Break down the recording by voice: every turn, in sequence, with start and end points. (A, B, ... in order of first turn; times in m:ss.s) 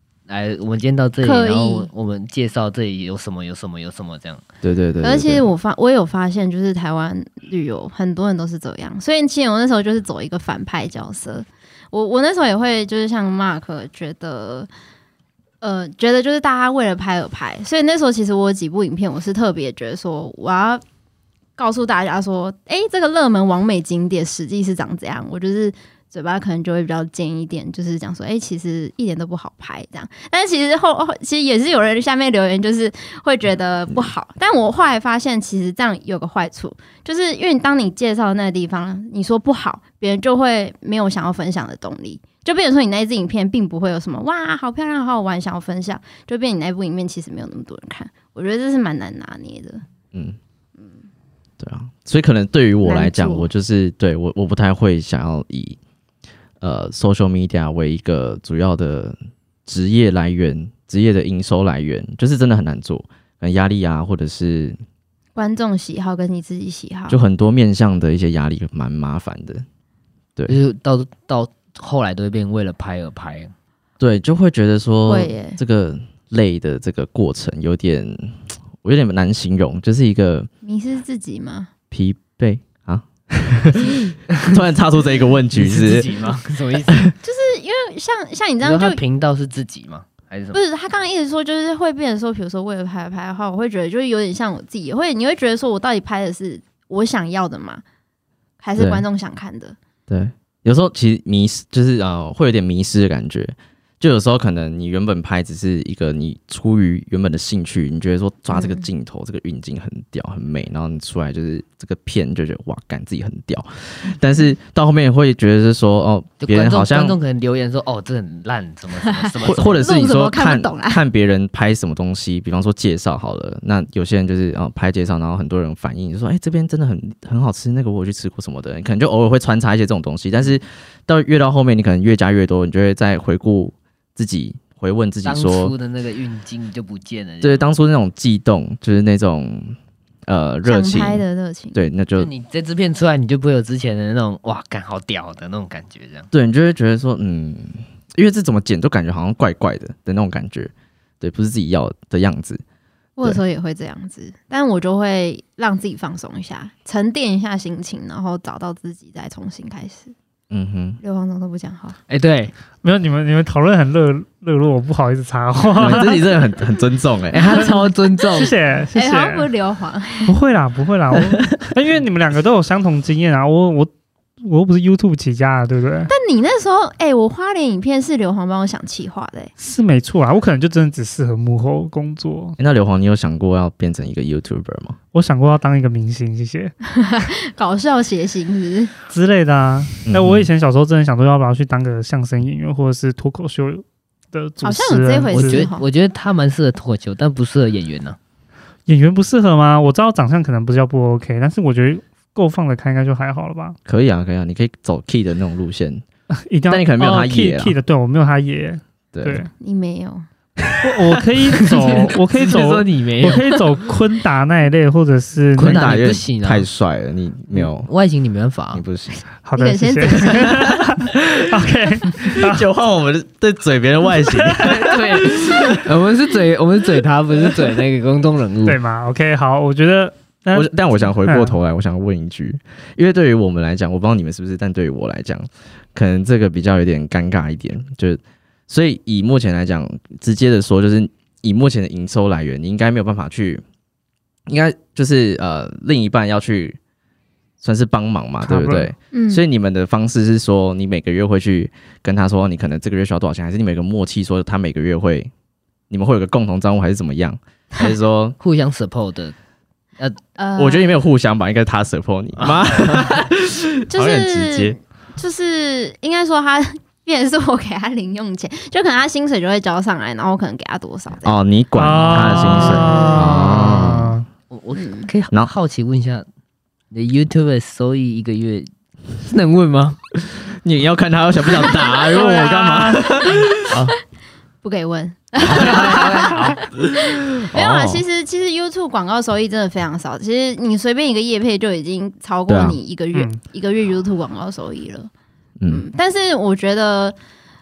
0:00.3-0:04.4 A
0:01.2-0:01.9 B
0:04.6-0:05.5 C
0:05.0-0:14.7 B
0:15.6-0:20.8 B
0:21.6-0:49.8 B
0:51.6-0:55.8 C
0:52.8-0:53.5 B
0:56.6-1:04.8 C
1:05.4-1:07.2 B
1:07.1-1:09.6 C
1:10.5-1:13.5 A
1:14.0-1:20.5 C
1:15.1-1:15.6 B
1:20.6-1:21.7 B
1:21.9-1:26.1 C
1:25.5-1:27.0 A
1:26.9-1:27.1 C
1:27.2-1:29.0 B
1:28.6-1:30.6 A
1:30.5-1:37.8 B
1:38.6-1:39.8 B
1:38.8-1:39.0 C
1:40.1-1:57.2 C
1:48.5-1:48.8 B
1:56.4-1:59.9 A
1:59.0-2:01.0 B
1:59.4-2:15.7 C
2:15.2-2:17.6 A
2:17.4-2:21.2 C
2:20.6-2:21.8 B
2:21.7-2:22.3 C
2:22.2-2:26.3 A
2:26.3-2:32.6 C
2:33.2-2:40.1 B
2:40.5-2:41.0 C
2:41.0-2:42.0 B
2:42.1-2:42.5 A
2:42.8-2:46.2 D
2:45.8-2:47.7 C
2:47.3-2:48.5 A
2:48.3-2:49.5 D
2:48.9-2:50.3 B
2:50.2-2:56.1 D
2:56.1-2:59.5 B
2:59.6-3:02.6 D
3:02.6-3:05.0 C
3:05.1-3:06.7 D
3:06.9-3:08.9 B
3:09.1-3:15.7 D
3:10.1-3:10.5 C
3:14.6-3:15.8 B
3:15.3-3:18.2 A
3:18.9-3:23.8 D
3:23.8-3:26.0 C
3:26.3-3:29.5 D
3:26.7-3:27.8 C
3:29.1-3:29.5 C
3:29.6-3:30.3 B
3:30.8-3:36.0 D
3:31.6-3:33.8 A
3:35.6-3:36.7 A
3:35.6-3:37.9 C
3:37.5-3:38.8 A
3:38.7-3:39.2 C
3:39.4-3:42.6 D
3:39.6-3:40.5 B
3:40.3-3:41.3 C
3:42.2-3:45.8 C
3:44.3-3:44.8 D
3:44.6-3:48.8 A
3:48.6-3:51.6 D
3:50.5-4:03.6 C
4:04.5-4:06.8 C
4:07.6-4:15.3 C
4:08.4-4:08.9 D
4:09.1-4:09.4 B
4:15.9-4:18.4 C
4:18.4-4:19.3 A
4:20.4-4:21.0 B
4:20.6-4:24.8 C
4:22.4-4:23.2 A
4:23.9-4:31.3 B
4:31.2-4:34.1 C
4:31.8-4:34.2 D
4:32.1-4:34.0 B
4:32.6-4:36.2 A
4:34.8-4:35.1 B
4:36.9-4:40.0 A
4:40.3-4:43.8 C
4:41.7-4:42.9 B
4:42.1-4:43.1 D
4:43.7-4:43.9 A
4:44.6-4:55.1 B
4:45.4-4:45.9 C
4:45.5-4:46.6 A
4:46.9-4:48.0 C
4:52.5-4:52.8 C
4:55.7-4:57.2 B